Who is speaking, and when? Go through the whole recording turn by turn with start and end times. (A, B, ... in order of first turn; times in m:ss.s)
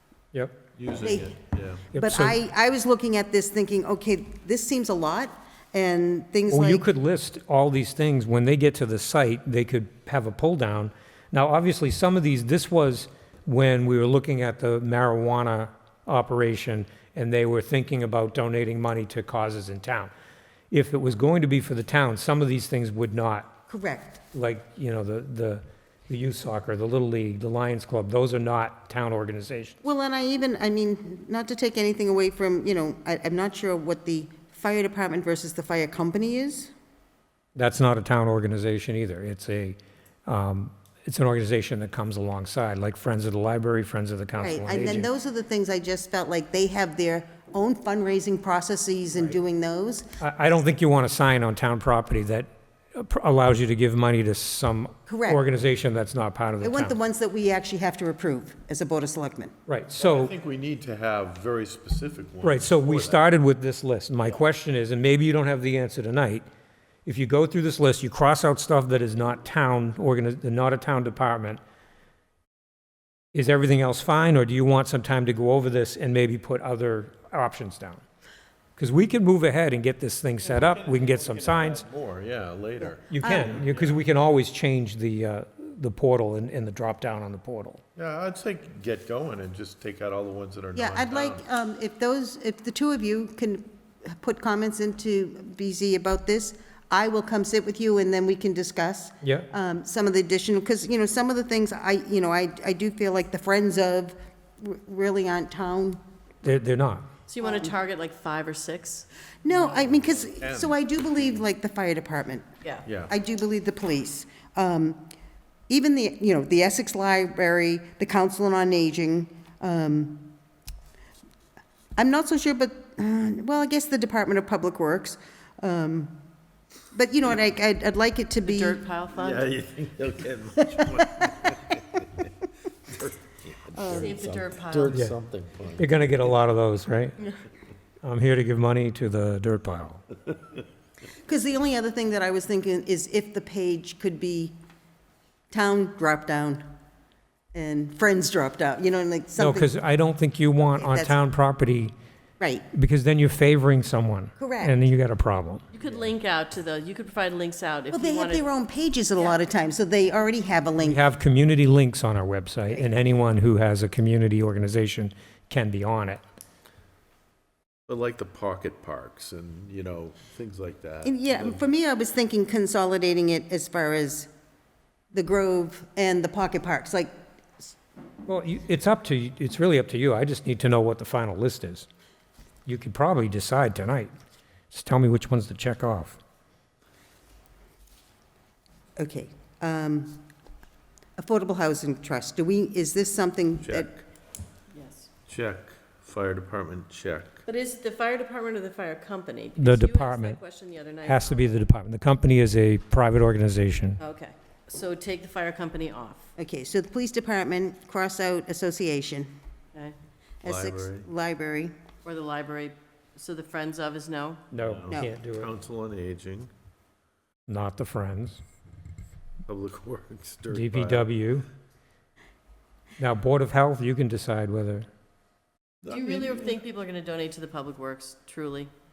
0:00.8-0:01.9 A
0:01.0-0:01.4 B
0:01.9-0:06.8 B
0:01.9-0:02.4 C
0:06.5-0:20.1 C
0:20.7-0:23.5 C
0:23.7-0:24.2 B
0:24.3-0:29.8 C
0:29.8-0:36.7 B
0:37.6-0:45.1 C
0:44.4-0:50.1 B
0:50.2-0:57.0 C
0:55.1-0:55.4 B
0:56.6-0:59.5 B
0:59.7-1:00.3 C
1:00.0-1:03.2 A
1:02.4-1:06.4 C
1:07.0-1:11.6 C
1:13.3-1:18.0 C
1:18.8-1:21.8 C
1:20.4-1:24.0 A
1:22.8-1:23.6 B
1:23.1-1:27.8 C
1:28.0-1:31.4 A
1:30.7-1:46.0 B
1:39.2-1:39.5 C
1:46.4-1:47.1 C
1:47.3-1:49.6 D
1:47.4-1:47.7 B
1:49.4-1:52.5 B
1:49.7-1:51.4 A
1:52.6-1:52.9 D
1:52.8-1:53.1 A
1:53.1-1:55.1 B
1:55.7-2:00.3 B
2:02.0-2:06.2 B
2:06.9-2:08.8 B
2:08.4-2:09.5 D
2:09.1-2:12.3 A
2:10.8-2:11.4 B
2:12.9-2:16.0 A
2:13.7-2:14.1 B
2:13.8-2:15.0 D
2:14.9-2:15.2 C
2:15.8-2:17.2 C
2:18.0-2:20.0 C
2:21.2-2:24.5 B
2:25.5-2:26.6 B
2:27.5-2:29.8 B
2:29.4-2:31.9 C
2:30.6-2:31.2 B
2:32.4-2:32.6 B
2:32.7-2:35.6 C
2:34.4-2:34.7 B
2:35.7-2:38.4 D
2:37.9-2:41.0 B
2:40.8-2:46.2 C
2:47.9-2:51.6 A
2:51.0-2:54.3 B
2:55.1-2:57.7 B
2:58.2-3:01.9 C
3:02.6-3:04.1 C
3:04.7-3:06.2 C
3:09.0-3:10.2 B
3:11.2-3:13.9 B
3:13.6-3:14.0 A
3:14.7-3:15.1 D
3:15.3-3:17.4 A
3:17.4-3:21.6 D
3:19.6-3:20.4 C
3:21.0-3:24.0 C
3:24.0-3:26.3 D
3:26.4-3:29.3 B
3:30.4-3:31.7 B
3:30.4-3:31.1 A
3:32.0-3:34.4 D
3:34.5-3:35.5 C
3:34.6-3:36.5 A
3:37.5-3:38.4 C
3:39.5-3:41.1 A
3:40.5-3:41.5 C
3:43.0-3:44.9 C
3:45.8-3:46.6 A
3:45.9-3:48.7 D